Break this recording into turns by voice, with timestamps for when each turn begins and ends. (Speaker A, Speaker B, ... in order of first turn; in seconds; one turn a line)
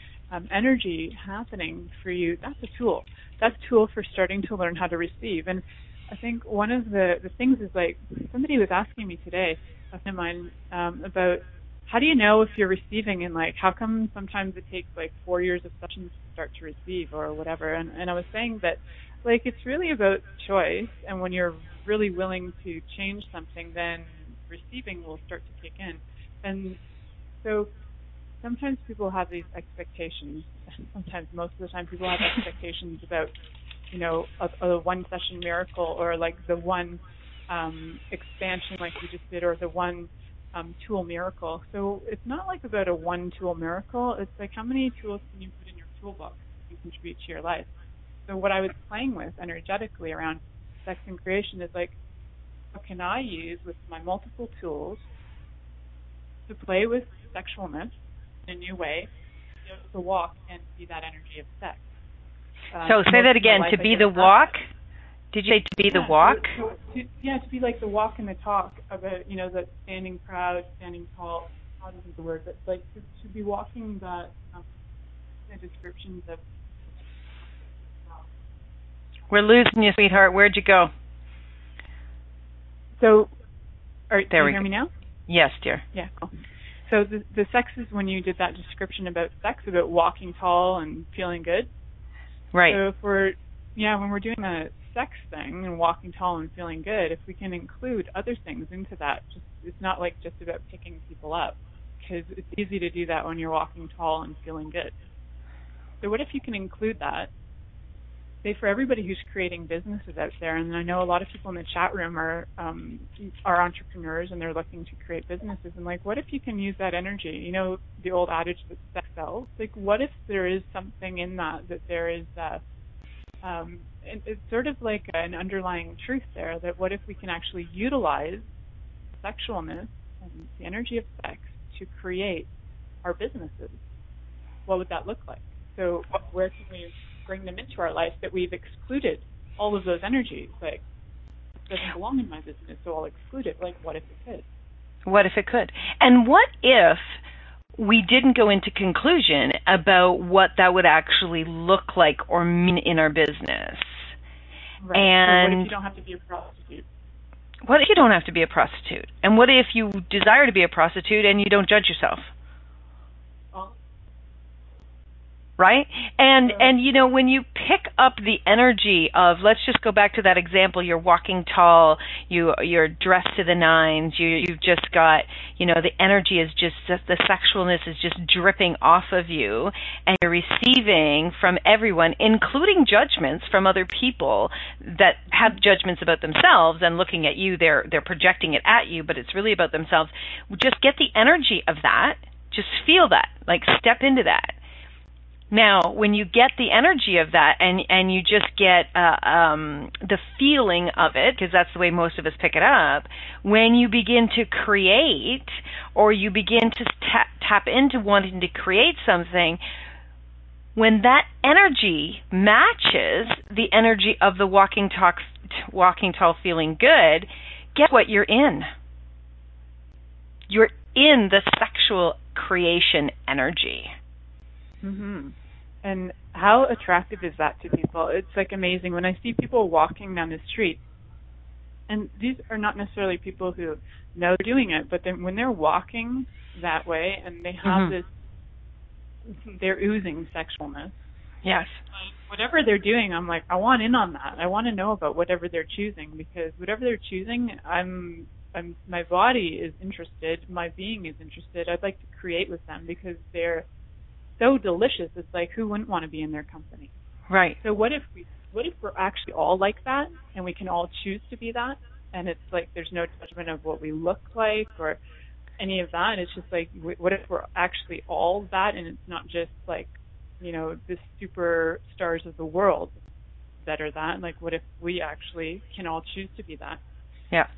Speaker A: 0.3-26.8
Speaker A: 27.4-27.7
Speaker A: 28.4-33.3
Speaker A: 33.9-47.7
Speaker A: 48.3-52.0
Speaker A: 52.7-55.0
Speaker A: 56.5-59.1
Speaker A: 59.6-61.9
Speaker A: 62.7-64.6
Speaker B: 62.9-64.6
Speaker B: 65.3-66.5
Speaker A: 65.9-74.7
Speaker A: 75.5-76.4
Speaker A: 77.9-78.3
Speaker B: 79.3-80.9
Speaker A: 83.0-83.3
Speaker A: 84.1-84.9
Speaker B: 84.3-84.6
Speaker B: 85.3-85.8
Speaker A: 85.9-86.3
Speaker A: 86.9-91.7
Speaker B: 92.5-92.8
Speaker A: 92.7-104.9
Speaker A: 106.0-107.3
Speaker A: 108.4-122.6
Speaker A: 123.4-128.5
Speaker A: 129.2-132.5
Speaker A: 133.0-133.8
Speaker A: 134.7-140.8
Speaker A: 141.7-144.4
Speaker B: 145.1-147.2
Speaker B: 147.8-154.1
Speaker A: 154.8-156.8
Speaker B: 154.9-155.7
Speaker B: 157.7-162.3
Speaker B: 165.6-194.6
Speaker B: 195.5-209.6
Speaker B: 210.8-218.7
Speaker B: 220.5-223.9
Speaker A: 224.8-230.8
Speaker A: 231.9-238.1
Speaker B: 237.7-237.9
Speaker A: 239.3-241.0
Speaker B: 241.4-241.8
Speaker A: 241.9-253.7
Speaker A: 254.4-256.9
Speaker B: 257.3-257.6
Speaker A: 257.6-265.0
Speaker A: 265.6-273.0
Speaker A: 273.6-276.8